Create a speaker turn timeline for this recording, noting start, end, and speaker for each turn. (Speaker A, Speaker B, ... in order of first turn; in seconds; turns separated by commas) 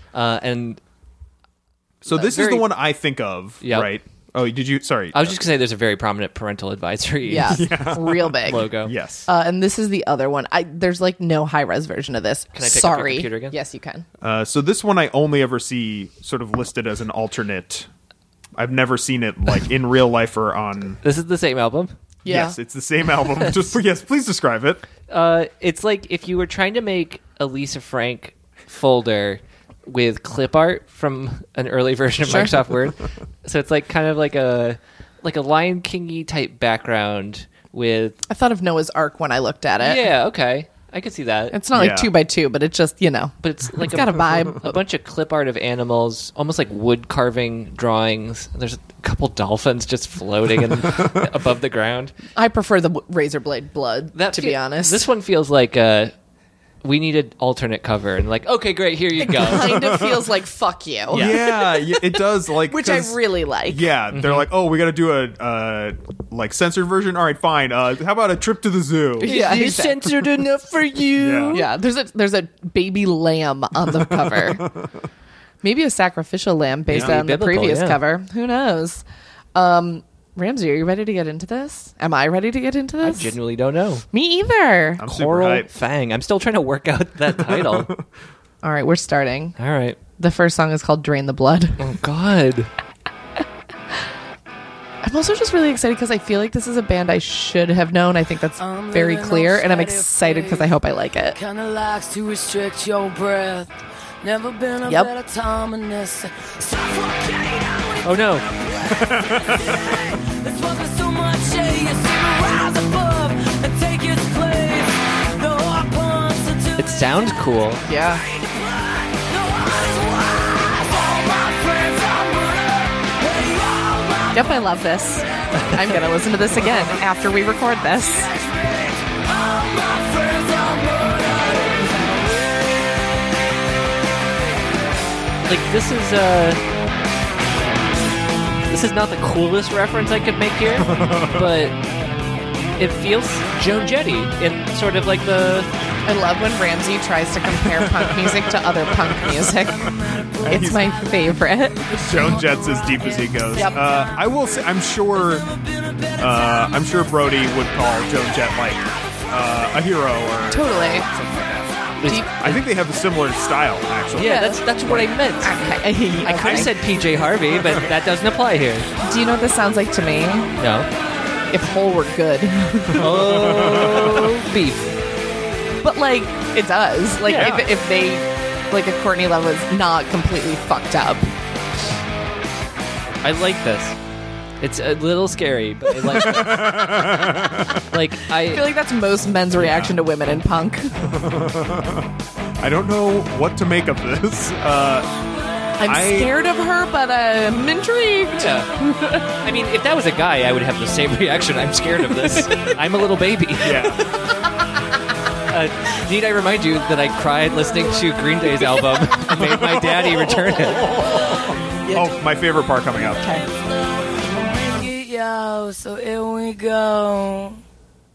Speaker A: 0.1-0.8, Speaker B: 2.0-5.4, Speaker A: 2.3-2.6, Speaker A: 3.6-3.9, Speaker A: 5.1-7.7, Speaker C: 7.3-8.6, Speaker B: 7.4-9.3, Speaker A: 8.3-8.9, Speaker C: 9.3-14.1, Speaker A: 12.5-13.6, Speaker B: 14.2-17.9, Speaker B: 18.6-21.0, Speaker A: 21.0-21.9, Speaker C: 22.2-22.6, Speaker B: 22.3-24.9, Speaker A: 25.1-38.2, Speaker C: 32.3-32.5, Speaker C: 38.3-40.0, Speaker A: 39.8-41.6, Speaker C: 41.5-44.8, Speaker B: 41.7-42.1, Speaker A: 43.4-52.1, Speaker C: 52.4-55.0, Speaker A: 54.1-56.1, Speaker A: 56.8-59.8, Speaker C: 59.2-61.4, Speaker B: 59.6-60.2, Speaker A: 61.1-61.6, Speaker B: 61.1-69.3, Speaker C: 62.7-63.8, Speaker A: 64.1-64.5, Speaker C: 69.2-70.1, Speaker A: 69.2-71.7, Speaker B: 71.2-71.6, Speaker C: 71.5-74.7, Speaker B: 74.1-74.9, Speaker C: 75.6-79.0, Speaker A: 76.9-78.0, Speaker C: 79.5-83.4, Speaker A: 83.0-84.0, Speaker C: 84.1-85.0, Speaker B: 85.0-85.7, Speaker A: 85.0-87.9, Speaker B: 87.3-88.0, Speaker C: 88.6-89.5, Speaker A: 89.6-90.0, Speaker C: 90.2-91.8, Speaker A: 91.8-92.7, Speaker C: 95.0-101.4, Speaker D: 98.6-100.7, Speaker D: 101.3-117.3, Speaker A: 108.0-108.5, Speaker B: 108.9-109.8, Speaker A: 116.8-117.8, Speaker C: 117.8-118.2, Speaker D: 118.3-126.1, Speaker C: 124.3-128.3, Speaker D: 128.2-132.5, Speaker A: 135.5-136.6, Speaker A: 138.7-141.8, Speaker B: 140.8-141.5, Speaker A: 142.8-145.7, Speaker C: 146.1-149.9, Speaker B: 147.7-150.9, Speaker C: 150.4-151.8, Speaker B: 151.9-155.5, Speaker B: 156.2-165.0, Speaker C: 160.5-161.1, Speaker A: 162.0-162.6, Speaker C: 162.0-162.3, Speaker A: 164.1-165.5, Speaker C: 164.2-164.6, Speaker C: 165.4-166.7, Speaker A: 166.2-168.9, Speaker C: 169.0-170.5, Speaker A: 170.6-170.9, Speaker C: 171.5-173.1, Speaker B: 172.9-174.4, Speaker A: 173.0-174.9, Speaker C: 175.8-181.3, Speaker A: 177.2-177.6, Speaker A: 183.2-184.0, Speaker A: 184.6-187.2, Speaker B: 186.1-187.9, Speaker A: 187.9-188.6, Speaker C: 188.4-191.1, Speaker B: 189.6-189.9, Speaker B: 191.0-195.1, Speaker C: 195.8-199.4, Speaker B: 195.8-196.3, Speaker A: 198.3-198.7, Speaker A: 199.4-203.9, Speaker C: 202.2-202.8, Speaker B: 203.6-204.0, Speaker A: 205.5-211.0, Speaker B: 209.3-213.2, Speaker C: 211.1-212.1, Speaker C: 213.2-213.4, Speaker D: 214.1-217.6